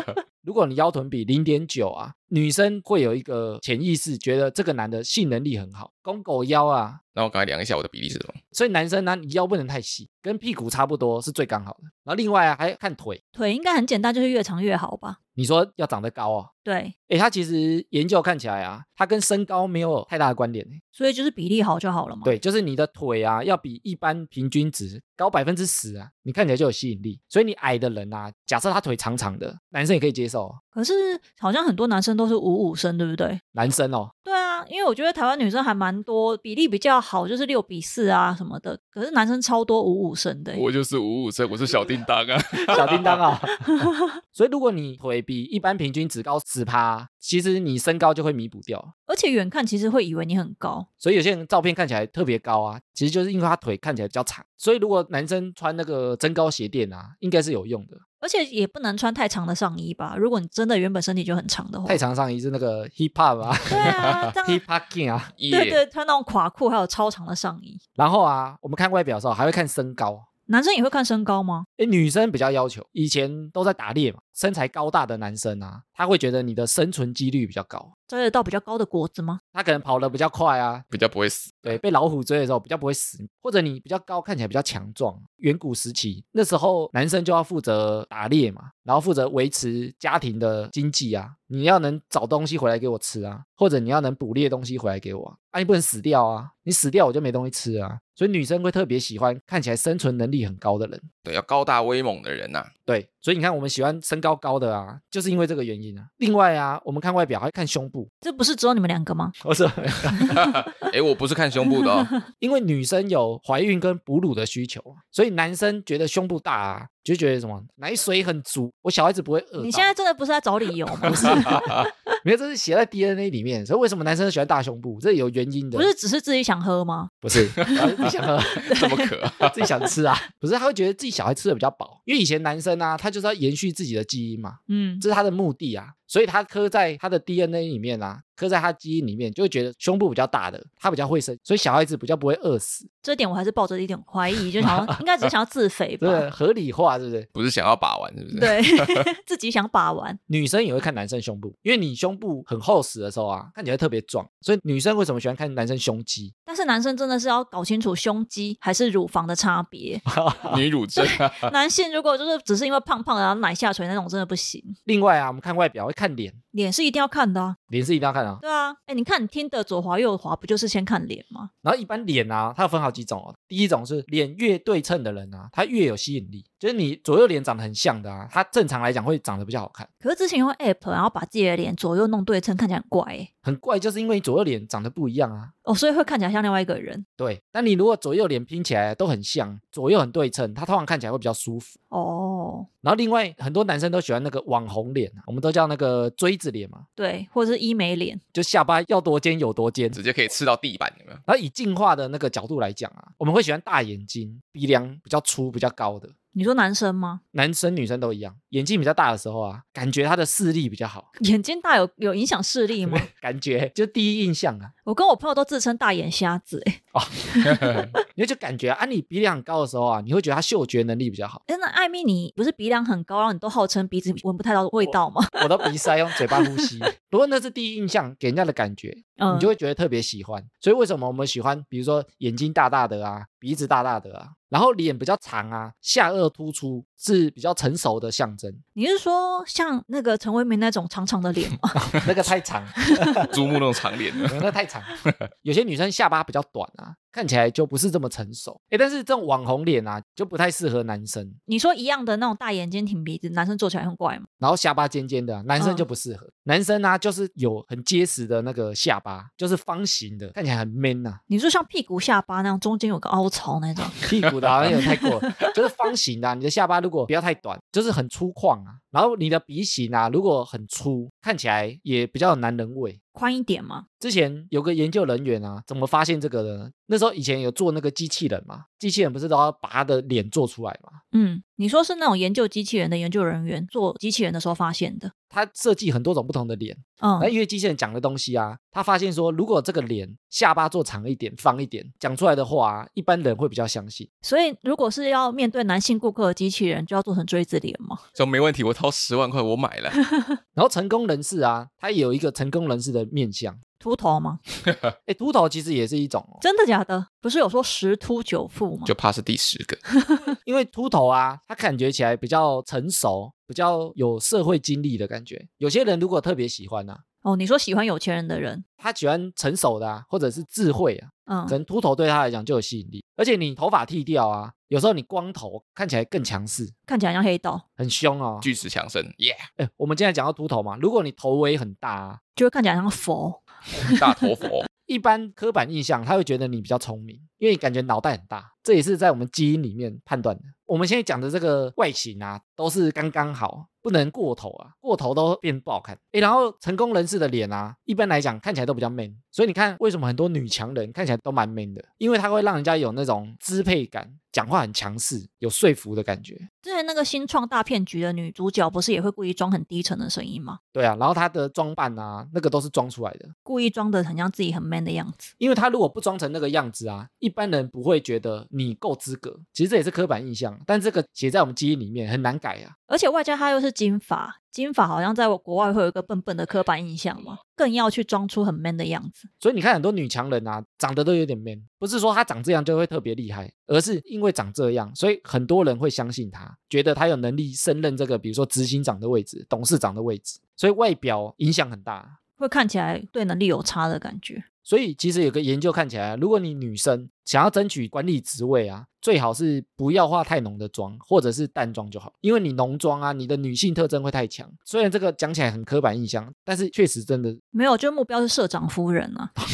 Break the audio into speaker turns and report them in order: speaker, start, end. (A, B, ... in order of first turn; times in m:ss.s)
0:00.4-0:07.0 A
0:07.1-0:08.4 B
0:08.5-0:13.2 A
0:13.3-0:15.2 C
0:15.3-0:16.5 A
0:16.6-0:16.9 C
0:17.1-0:20.8 A
0:21.0-0:22.3 C
0:22.2-0:30.6 A
0:30.7-0:33.4 C
0:33.5-0:34.1 A
0:34.2-0:40.6 C
0:40.5-0:43.2 B
0:42.7-0:43.7 A
0:43.8-0:44.1 C
0:44.3-0:48.9 A
0:49.1-0:50.9 C
0:51.0-0:58.0 A
0:58.2-1:02.0 C
1:01.8-1:05.3 A
1:03.7-1:04.6 C
1:05.4-1:05.8 B
1:05.5-1:07.8 C
1:08.0-1:10.2 A
1:10.5-1:11.6 C
1:11.8-1:17.9 A
1:18.1-1:19.4 C
1:19.5-1:20.8 A
1:20.9-1:21.8 B
1:21.6-1:41.0 A
1:41.2-1:42.7 B
1:42.8-1:48.1 A
1:48.2-1:49.3 C
1:49.4-1:50.5 A
1:50.3-1:52.1 B
1:52.4-1:59.9 A
1:59.6-2:01.7 C
2:01.0-2:05.9 A
2:01.3-2:01.8 B
2:05.7-2:07.9 C
2:07.2-2:08.7 A
2:08.6-2:09.6 B
2:08.7-2:09.1 C
2:09.4-2:22.9 A
2:14.7-2:15.0 C
2:23.0-2:26.2 C
2:24.6-2:24.9 A
2:26.0-2:27.3 A
2:27.3-2:29.0 B
2:28.3-2:30.2 C
2:30.3-2:36.3 A
2:36.5-2:40.0 C
2:40.0-2:40.6 A
2:40.4-2:41.5 B
2:40.9-2:44.8 C
2:44.8-2:46.4 A
2:46.5-2:47.6 C
2:47.7-2:48.4 A
2:48.4-2:51.5 C
2:51.6-2:59.9 A
3:00.0-3:03.3 C
3:03.4-3:05.5 A
3:05.6-3:07.0 C
3:07.2-3:11.7 A
3:11.9-3:12.7 C
3:12.8-3:16.8 A
3:17.0-3:18.2 C
3:18.3-3:20.0 A
3:19.9-3:21.2 B
3:21.3-3:26.1 A
3:26.3-3:27.2 C
3:27.3-3:31.1 A
3:31.2-3:33.1 C
3:32.8-3:34.7 A
3:34.8-3:38.0 C
3:36.9-3:41.4 A
3:41.5-3:46.7 C
3:44.8-3:58.6 A
3:49.2-3:49.5 C
3:58.8-4:02.0 C
4:01.9-4:03.2 A
4:02.9-4:03.2 C
4:03.2-4:04.3 B
4:04.2-4:11.4 A
4:11.5-4:14.3 C
4:14.4-4:21.2 A
4:15.6-4:15.8 C
4:21.3-4:24.0 C
4:24.0-4:33.0 A
4:33.1-4:33.8 C
4:34.0-4:41.0 A
4:41.1-4:45.1 C
4:45.3-4:54.1 A
4:47.0-4:47.3 C
4:54.2-4:58.0 C
4:58.2-5:00.0 B
5:00.0-5:00.4 C
5:00.5-5:03.6 A
5:03.8-5:04.4 C
5:05.1-5:06.4 A
5:06.4-5:08.9 C
5:08.8-5:09.8 B
5:09.9-5:10.2 C
5:10.4-5:17.0 A
5:17.2-5:18.6 C
5:18.8-5:26.7 A
5:21.3-5:21.6 C
5:26.9-5:27.6 C
5:27.8-5:28.5 A
5:28.4-5:29.4 B
5:29.6-5:32.2 A
5:32.4-5:34.0 C
5:33.8-5:34.7 B
5:34.9-5:56.5 A
5:56.6-6:00.6 C
6:00.7-6:03.3 A
6:03.4-6:05.3 C
6:05.4-6:12.7 A
6:12.9-6:19.3 C
6:19.4-6:32.2 A
6:32.4-6:34.4 C
6:34.6-6:47.4 A
6:47.5-6:49.3 C